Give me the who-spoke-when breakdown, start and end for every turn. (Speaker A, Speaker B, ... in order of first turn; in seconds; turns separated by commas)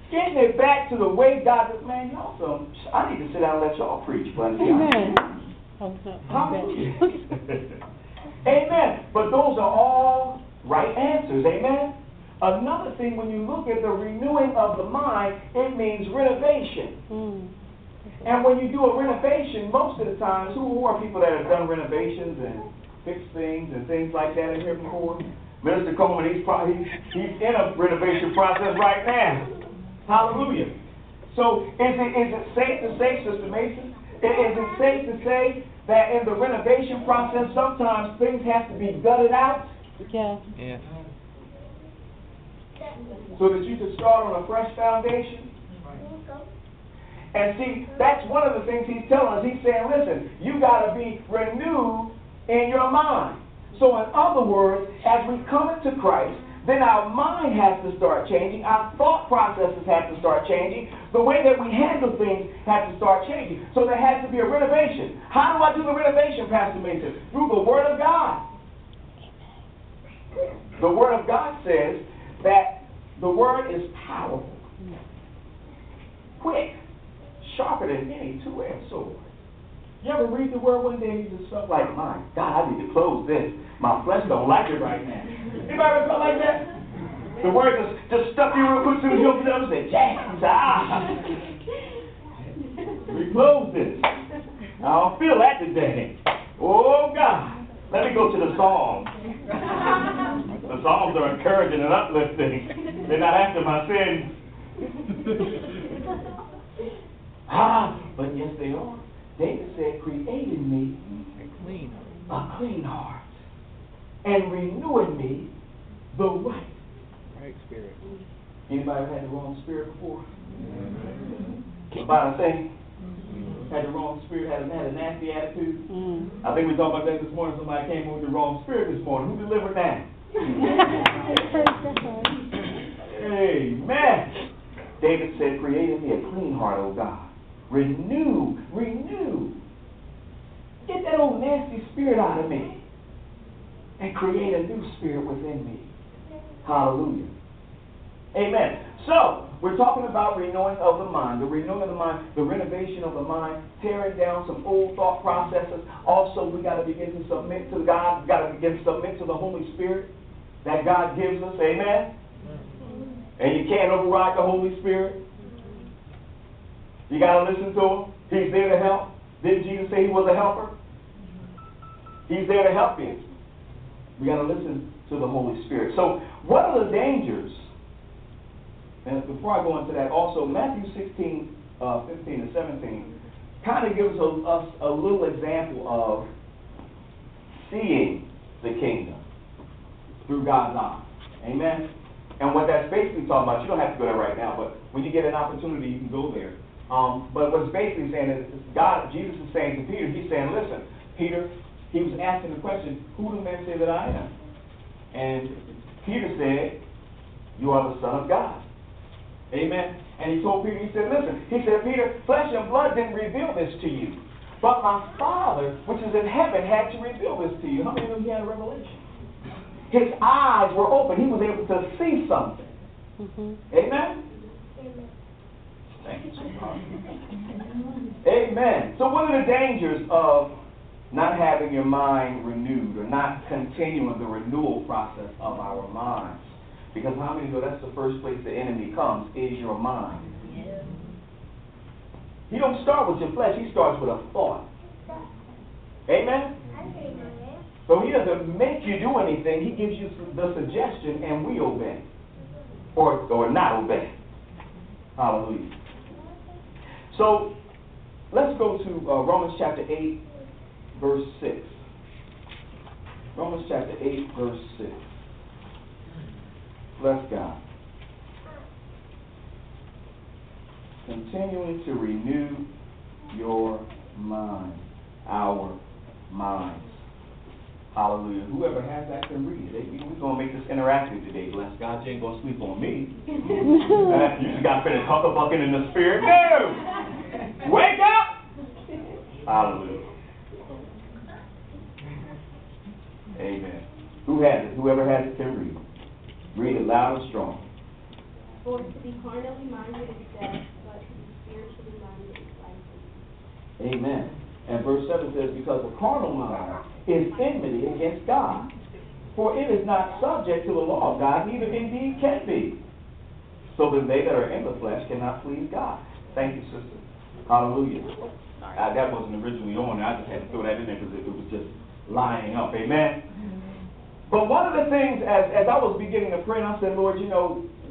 Speaker A: 0.1-5.2, Speaker B: 4.6-5.2, Speaker B: 5.8-7.2, Speaker A: 6.3-7.7, Speaker A: 8.4-17.0, Speaker B: 17.1-17.5, Speaker A: 18.2-29.5, Speaker A: 30.1-30.7, Speaker A: 31.3-39.7, Speaker B: 40.1-40.4, Speaker C: 40.6-40.9, Speaker A: 43.4-45.5, Speaker A: 47.3-68.4, Speaker A: 70.6-74.7, Speaker A: 76.4-76.7, Speaker A: 77.4-79.3, Speaker A: 80.0-86.6, Speaker A: 87.4-91.3, Speaker A: 93.1-94.1, Speaker A: 94.8-99.1, Speaker A: 99.6-104.3, Speaker A: 107.5-111.2, Speaker C: 111.4-112.2, Speaker A: 112.3-113.2, Speaker A: 114.2-115.5, Speaker A: 116.1-116.8, Speaker C: 117.3-118.1, Speaker A: 118.7-120.3, Speaker A: 121.9-122.7, Speaker A: 123.7-125.8, Speaker B: 125.9-126.3, Speaker A: 126.4-130.1, Speaker B: 130.6-132.4, Speaker A: 133.0-134.3, Speaker A: 135.0-139.6, Speaker A: 140.9-142.8, Speaker A: 144.0-145.9, Speaker A: 146.6-147.3, Speaker A: 148.3-160.1, Speaker A: 160.6-162.1, Speaker A: 163.4-165.2, Speaker A: 167.1-170.7, Speaker A: 172.3-173.2, Speaker A: 174.2-177.6, Speaker A: 179.1-183.1, Speaker A: 183.6-186.3, Speaker A: 187.5-189.2, Speaker A: 190.3-191.9, Speaker A: 192.4-204.3, Speaker A: 205.1-206.8, Speaker A: 207.6-208.6, Speaker A: 209.5-219.0, Speaker A: 219.9-222.7, Speaker B: 223.2-223.6, Speaker A: 223.7-224.2, Speaker D: 224.8-225.1, Speaker A: 226.0-226.8, Speaker A: 228.2-230.5, Speaker A: 231.1-240.3, Speaker A: 242.5-244.7, Speaker A: 246.1-246.5, Speaker A: 247.9-252.1, Speaker A: 253.0-254.1, Speaker A: 255.2-255.7, Speaker A: 257.1-257.5, Speaker A: 258.3-260.2, Speaker A: 260.9-261.8, Speaker A: 263.4-265.0, Speaker A: 267.0-267.6, Speaker A: 271.0-272.7, Speaker A: 273.3-275.8, Speaker A: 276.3-277.0, Speaker A: 277.9-283.1, Speaker A: 283.9-286.9, Speaker A: 287.6-288.3, Speaker A: 289.5-290.1, Speaker A: 293.4-295.8, Speaker A: 296.5-297.6, Speaker D: 298.6-303.1, Speaker A: 303.8-308.7, Speaker A: 309.4-312.8, Speaker A: 313.7-318.1, Speaker A: 318.7-323.2, Speaker A: 324.3-327.6